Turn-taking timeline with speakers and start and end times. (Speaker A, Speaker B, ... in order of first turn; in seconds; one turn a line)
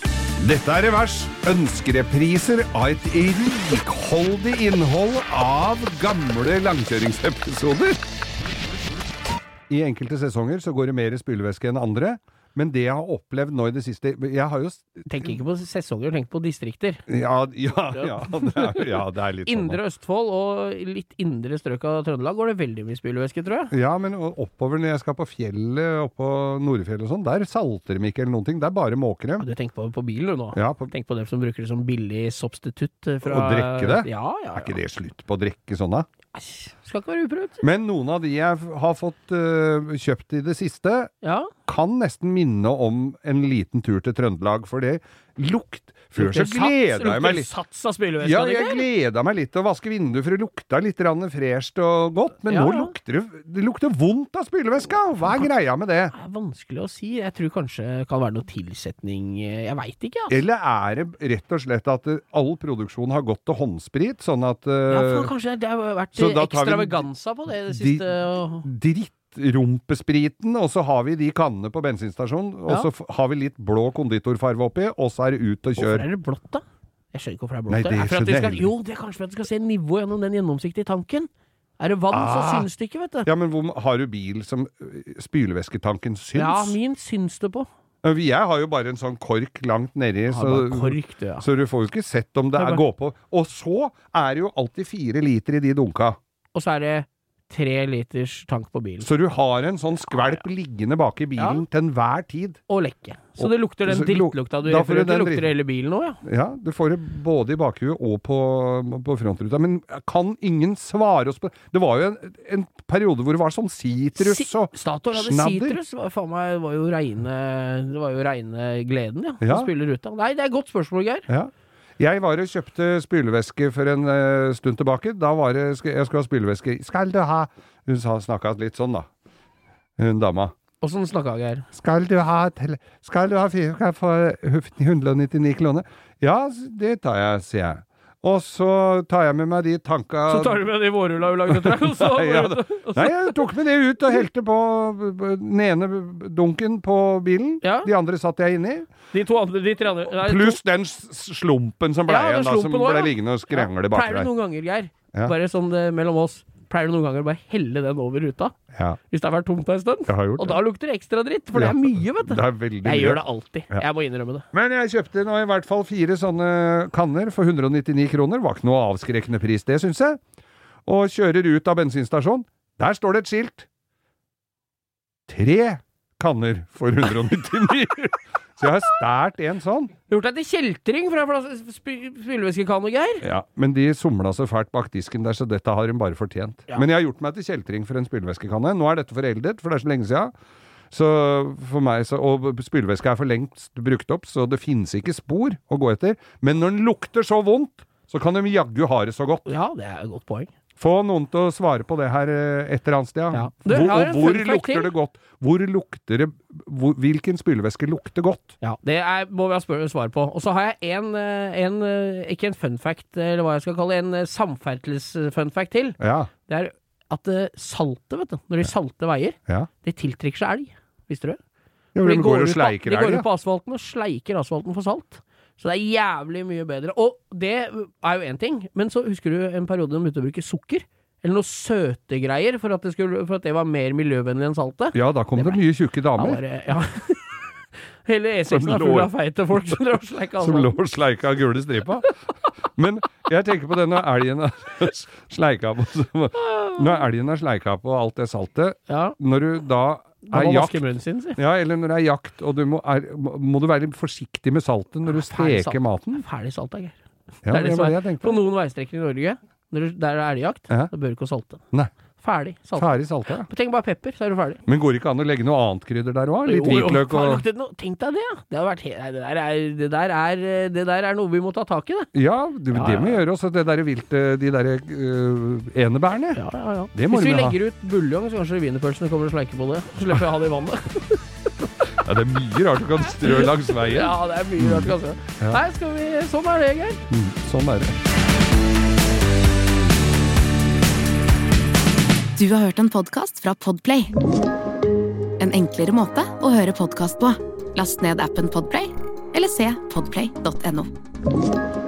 Speaker A: 0.4-8.0
Speaker A: 9.7-15.4
Speaker B: 15.1-17.0
Speaker A: 17.1-19.8
Speaker B: 17.9-23.7
Speaker A: 23.7-29.5
Speaker B: 29.4-34.8
Speaker A: 30.5-30.9
Speaker A: 33.2-36.0
Speaker B: 36.3-37.6
Speaker A: 37.6-41.1
Speaker B: 41.2-41.5
Speaker A: 41.6-47.5
Speaker B: 46.2-48.9
Speaker A: 48.2-56.1
Speaker B: 52.5-52.9
Speaker B: 56.1-60.4
Speaker A: 60.3-65.3
Speaker B: 64.9-68.7
Speaker A: 66.1-76.1
Speaker B: 75.8-83.3
Speaker A: 77.7-78.7
Speaker A: 82.1-82.7
Speaker A: 83.2-86.8
Speaker B: 86.3-87.7
Speaker A: 88.0-96.2
Speaker B: 90.3-91.5
Speaker B: 92.5-92.8
Speaker B: 96.5-99.1
Speaker A: 99.0-102.6
Speaker B: 101.4-101.6
Speaker B: 102.7-106.2
Speaker A: 103.4-105.6
Speaker A: 106.2-115.8
Speaker B: 114.2-121.3
Speaker A: 119.4-119.7
Speaker A: 121.3-129.1
Speaker A: 130.0-130.5
Speaker B: 130.8-131.7
Speaker A: 131.7-140.7
Speaker B: 140.3-143.4
Speaker A: 141.5-148.9
Speaker B: 147.6-147.9
Speaker B: 149.1-150.6
Speaker A: 150.1-154.3
Speaker B: 152.1-158.5
Speaker A: 158.7-159.0
Speaker B: 159.1-164.4
Speaker A: 160.1-160.6
Speaker A: 161.5-163.8
Speaker A: 164.5-170.2
Speaker A: 170.8-173.7
Speaker A: 175.3-179.9
Speaker B: 180.1-183.2
Speaker A: 183.2-190.3
Speaker A: 190.9-199.5
Speaker B: 199.4-200.5
Speaker A: 200.8-208.5
Speaker B: 203.3-204.9
Speaker B: 208.6-221.4
Speaker A: 216.0-216.3
Speaker A: 221.9-223.3
Speaker B: 222.0-235.6
Speaker A: 234.9-236.4
Speaker B: 236.1-237.3
Speaker B: 238.0-240.7
Speaker A: 238.5-239.8
Speaker A: 240.4-242.1
Speaker A: 242.8-250.8
Speaker B: 248.9-249.2
Speaker B: 250.3-251.4
Speaker A: 251.4-256.2
Speaker B: 255.1-256.9
Speaker A: 257.4-258.4
Speaker B: 257.4-261.6
Speaker B: 262.2-264.6
Speaker A: 262.8-263.5
Speaker A: 264.7-267.4
Speaker B: 266.4-272.1
Speaker A: 272.1-276.4
Speaker B: 272.7-273.2
Speaker B: 276.3-281.2
Speaker A: 276.9-277.6
Speaker A: 282.0-285.6
Speaker B: 283.2-287.0
Speaker A: 287.1-287.9
Speaker C: 292.4-294.1
Speaker C: 295.4-300.9